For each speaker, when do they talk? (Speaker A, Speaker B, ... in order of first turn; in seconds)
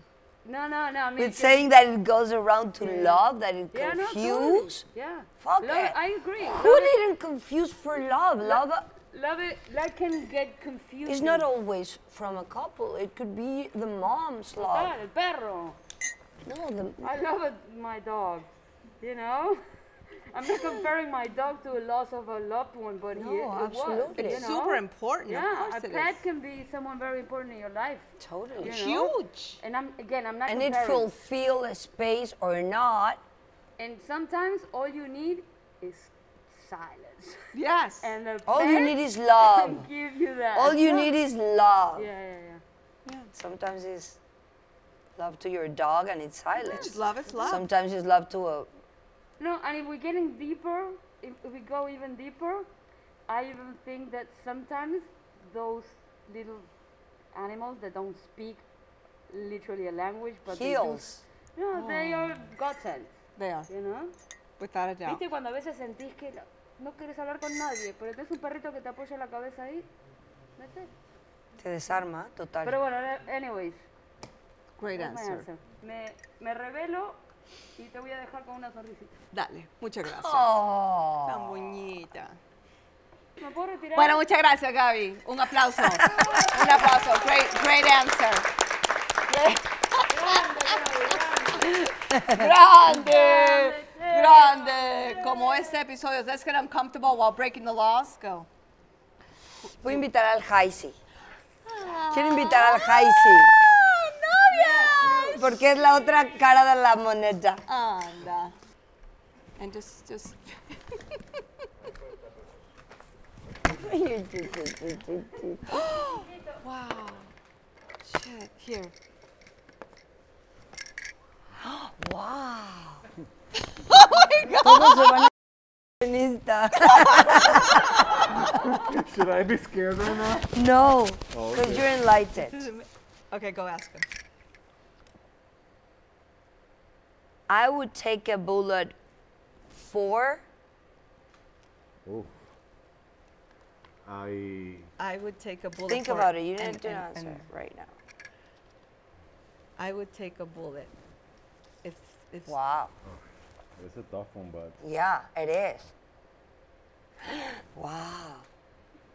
Speaker A: 0.4-1.6, 2.8-7.0, 8.4-11.4, 14.6-15.8, 17.0-18.5, 19.0-19.6, 20.3-31.1, 33.8-41.1, 42.0-42.6, 49.4-52.7, 53.3-56.7, 57.3-58.6, 59.3-63.2, 63.7-64.1, 65.0-69.9, 70.6-70.9, 72.6-73.8, 74.9-77.2, 77.8-79.1, 83.4-84.2, 90.1-91.7, 92.4-95.7
Speaker B: 1.2-4.8, 5.4-8.8, 11.1-14.9, 16.4-17.1, 23.1-24.4, 28.2-28.7, 30.5-33.2, 38.5-39.9, 40.5-42.1, 43.3-44.2, 45.1-48.7, 60.5-61.2, 71.6-72.8, 80.0-81.7, 86.0-86.7, 92.1-92.5, 99.8-101.0, 102.1-103.5, 104.8-107.6, 113.6-115.8, 121.6-123.1, 124.4-128.0, 130.5-132.7, 137.5-138.9, 139.7-140.4, 145.9-147.9, 152.5-152.9, 154.8-155.9, 157.2-158.4
Speaker C: 24.1-26.1, 28.6-29.6, 37.5-38.1, 43.0-43.3, 46.6-47.6, 61.7-62.4, 63.4-63.7, 64.6-65.2, 74.8-75.5, 79.3-80.5, 81.2-82.4, 83.9-88.5, 89.3-98.5, 101.6-105.7, 107.7-108.5, 109.6-111.6, 115.7-117.3, 118.0-118.9, 123.7-125.2, 126.9-128.6, 132.4-134.1, 145.0-147.5, 149.8-150.9, 151.8-152.6
Speaker D: 128.2-130.5, 131.3-132.0, 142.0-142.4, 144.0-144.9, 153.8-154.8